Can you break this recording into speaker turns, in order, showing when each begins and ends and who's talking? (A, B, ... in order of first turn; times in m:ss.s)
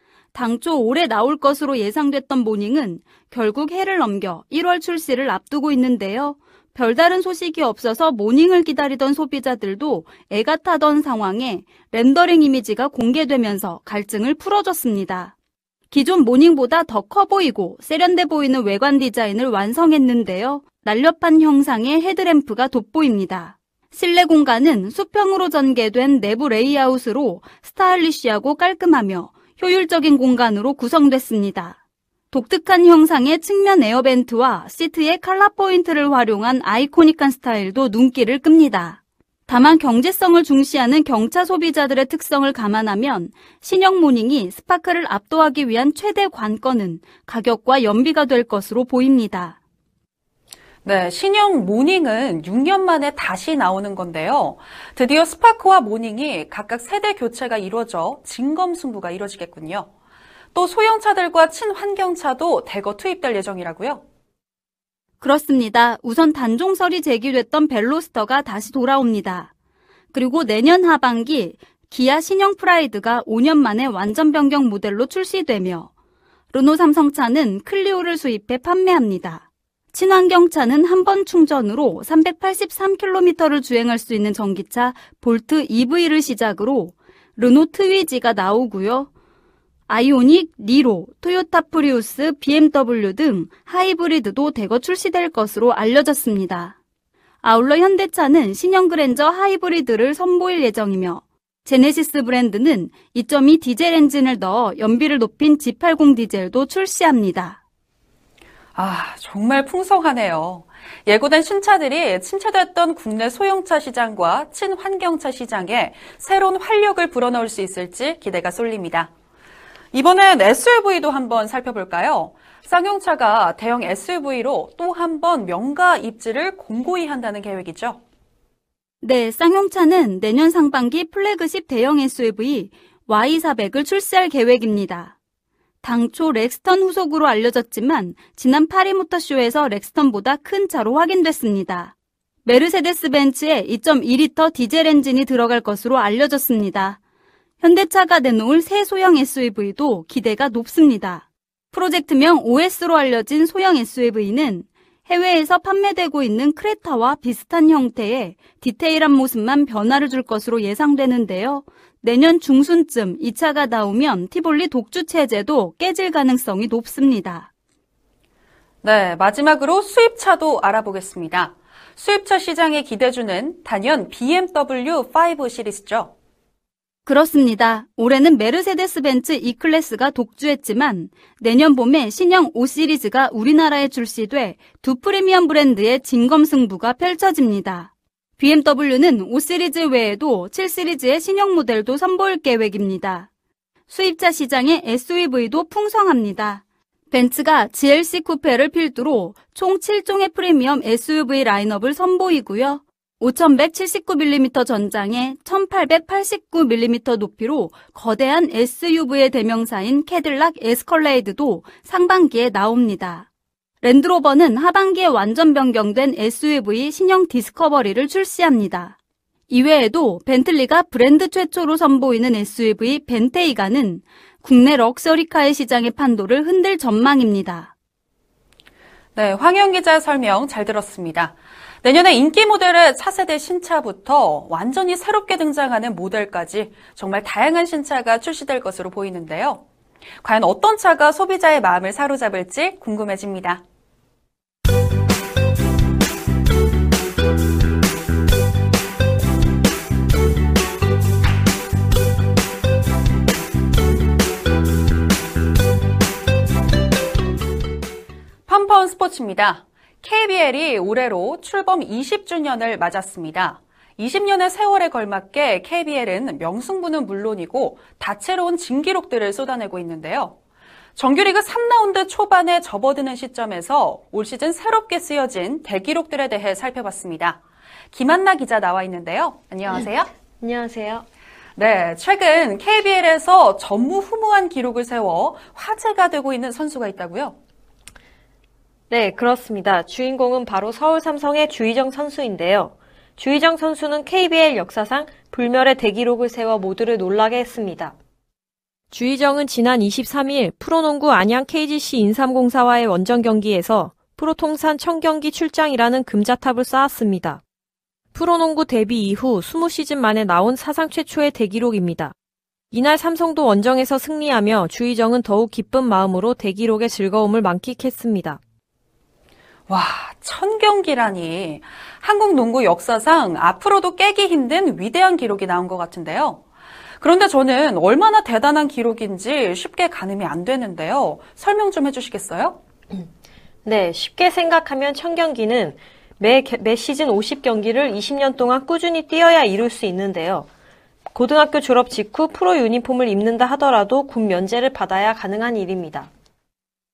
0:00.3-0:15.3 A
0:15.9-0:31.8 A
0:32.3-0:49.6 A
0:50.8-0:59.9 B
1:00.5-1:04.0 B
1:05.2-1:09.5 A
1:10.1-1:15.9 A
1:16.5-1:29.1 A
1:29.9-1:36.7 A
1:37.4-1:47.6 A
1:48.8-1:59.1 B
1:59.9-2:08.0 B
2:09.0-2:15.1 A
2:15.8-2:21.9 A
2:22.4-2:27.0 A
2:27.6-2:47.5 A
2:48.8-2:56.1 B
2:57.0-3:13.3 A
3:13.9-3:33.3 A
3:33.8-3:39.0 A
3:39.5-3:47.7 A
3:49.2-3:59.6 B
4:00.2-4:03.6 B
4:18.5-4:30.4 B
4:31.0-4:37.4 B
4:37.9-4:40.1 B
4:40.4-4:41.0 C
4:41.6-4:47.4 B
4:48.9-4:57.9 C
4:58.9-5:07.4 C
5:08.1-5:12.1 C
5:12.7-5:18.4 C
5:19.7-5:26.4 B
5:27.0-5:32.6 B
5:33.6-5:40.5 C
5:41.1-5:46.1 C